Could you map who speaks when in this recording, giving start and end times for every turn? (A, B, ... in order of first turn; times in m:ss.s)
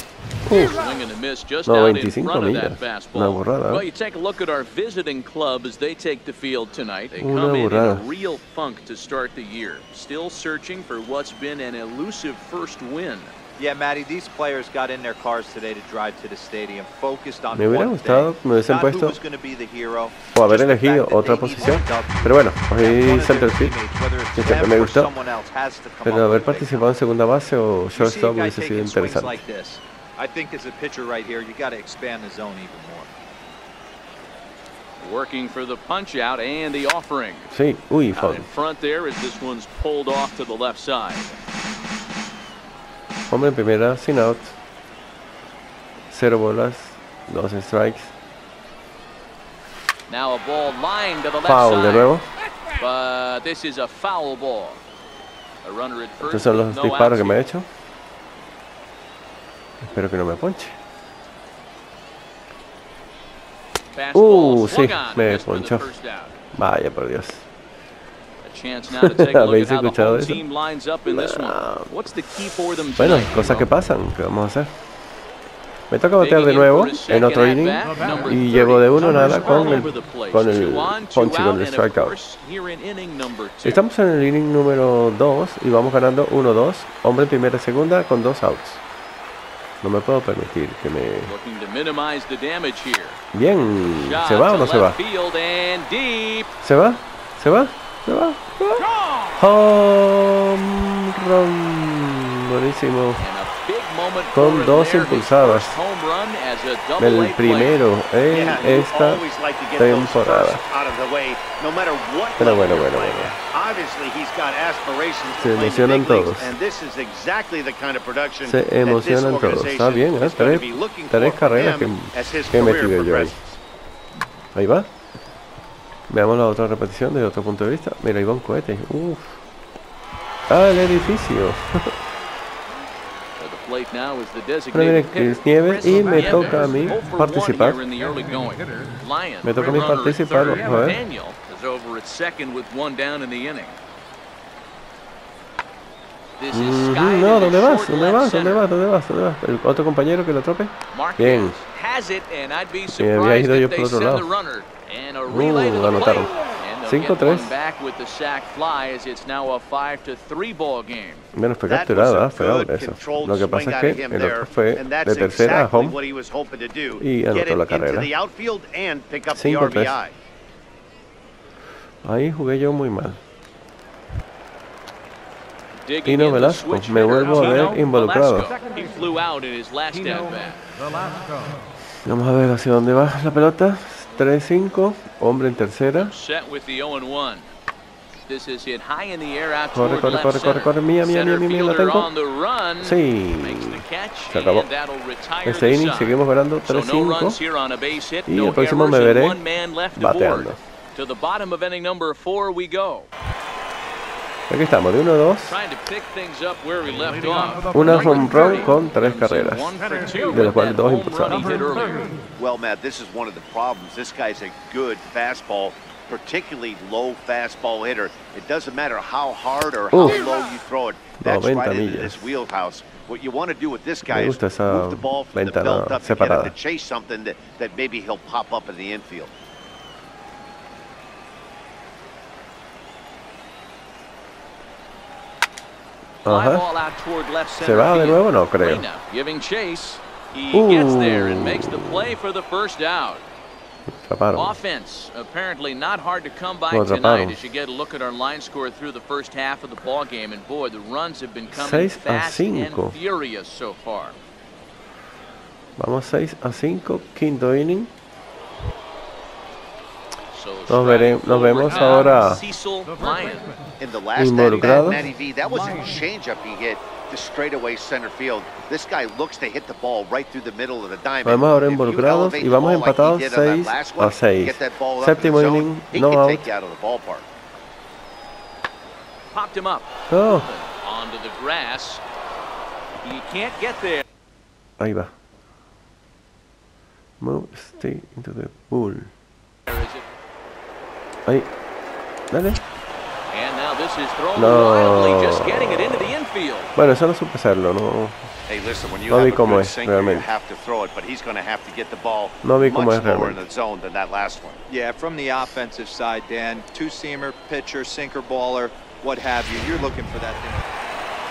0:00.4-0:00.8 A
0:00.5-0:13.3 B
0:01.6-0:03.8 A
0:07.2-0:08.0 A
0:13.6-0:26.9 C
0:17.5-0:19.2 A
0:20.3-0:23.8 A
0:24.4-0:25.1 A
0:26.0-0:29.4 A
0:27.9-0:33.1 C
0:35.0-0:37.5 B
0:37.5-0:38.5 A
0:38.1-0:41.3 B
0:43.3-0:44.5 A
0:46.1-0:48.1 A
0:50.1-0:52.1 B
0:51.4-0:52.3 A
0:52.7-0:54.8 B
0:55.6-0:57.4 B
0:56.2-0:57.6 A
0:59.8-1:00.8 A
1:03.9-1:06.4 B
1:04.1-1:05.9 A
1:06.5-1:07.5 A
1:08.4-1:13.7 B
1:09.0-1:10.4 A
1:11.0-1:12.1 A
1:13.0-1:14.7 A
1:15.9-1:22.2 A
1:16.2-1:23.8 B
1:17.9-1:20.0 D
1:23.6-1:28.8 A
1:29.8-1:31.3 A
1:31.2-1:33.2 B
1:33.3-1:35.0 A
1:33.8-1:36.5 B
1:36.6-1:43.2 A
1:38.8-1:39.4 B
1:43.2-1:47.8 B
1:44.3-1:45.8 A
1:47.0-1:49.2 A
1:48.3-2:03.5 E
1:49.7-1:50.6 A
1:52.4-1:53.4 A
1:55.4-1:56.5 A
1:58.4-2:03.4 A
2:04.5-2:04.9 A
2:06.1-2:09.4 A
2:10.5-2:11.9 A
2:13.4-2:23.8 B
2:14.7-2:17.8 A
2:15.8-2:17.0 D
2:17.9-2:19.0 D
2:19.4-2:21.0 A
2:20.5-2:21.0 D
2:26.4-2:28.6 B
2:26.5-2:31.6 A
2:30.9-2:41.3 B
2:32.9-2:34.3 A
2:35.3-2:37.5 A
2:41.3-2:46.0 A
2:41.7-2:50.1 E
2:47.0-2:48.1 A
2:49.3-2:50.0 A
2:52.0-2:53.2 A
2:55.8-3:00.6 B
2:56.0-2:58.5 A
2:57.3-2:57.8 D
2:58.5-2:59.2 D
2:59.9-3:01.6 D
3:02.0-3:06.1 A
3:06.0-3:07.5 B
3:08.3-3:23.1 B
3:09.7-3:12.1 A
3:12.8-3:14.7 A
3:15.4-3:17.4 A
3:18.3-3:19.4 A
3:20.0-3:20.6 A
3:24.5-3:25.6 A
3:25.4-3:32.1 B
3:26.8-3:28.7 D
3:27.7-3:29.8 A
3:29.8-3:30.5 D
3:30.3-3:31.6 A
3:31.3-3:32.2 D
3:32.4-3:49.3 E
3:39.9-3:40.2 A
3:41.2-3:42.3 A
3:44.0-3:46.5 A
3:56.2-3:56.6 A
3:56.2-4:03.2 B
3:57.6-3:58.8 A
4:00.5-4:02.2 A
4:03.9-4:04.6 A
4:04.3-4:14.2 B
4:06.7-4:07.4 A
4:11.5-4:13.0 A
4:15.8-4:17.9 A
4:20.3-4:23.6 B
4:20.7-4:22.4 A
4:21.8-4:22.2 D
4:22.9-4:23.7 D
4:23.8-4:37.3 E
4:24.1-4:25.1 A
4:25.5-4:25.9 D
4:31.2-4:36.5 A
4:39.3-4:42.0 B
4:40.1-4:40.5 A
4:43.0-4:44.0 B
4:44.8-4:45.1 A
4:47.2-4:49.1 A
4:49.7-4:50.0 B
4:52.3-4:52.6 A
4:53.3-4:56.7 B
4:54.4-4:56.1 A
4:56.8-4:58.3 A
4:58.5-5:04.6 E
4:59.1-5:00.3 A
5:02.4-5:03.4 A
5:04.7-5:10.7 C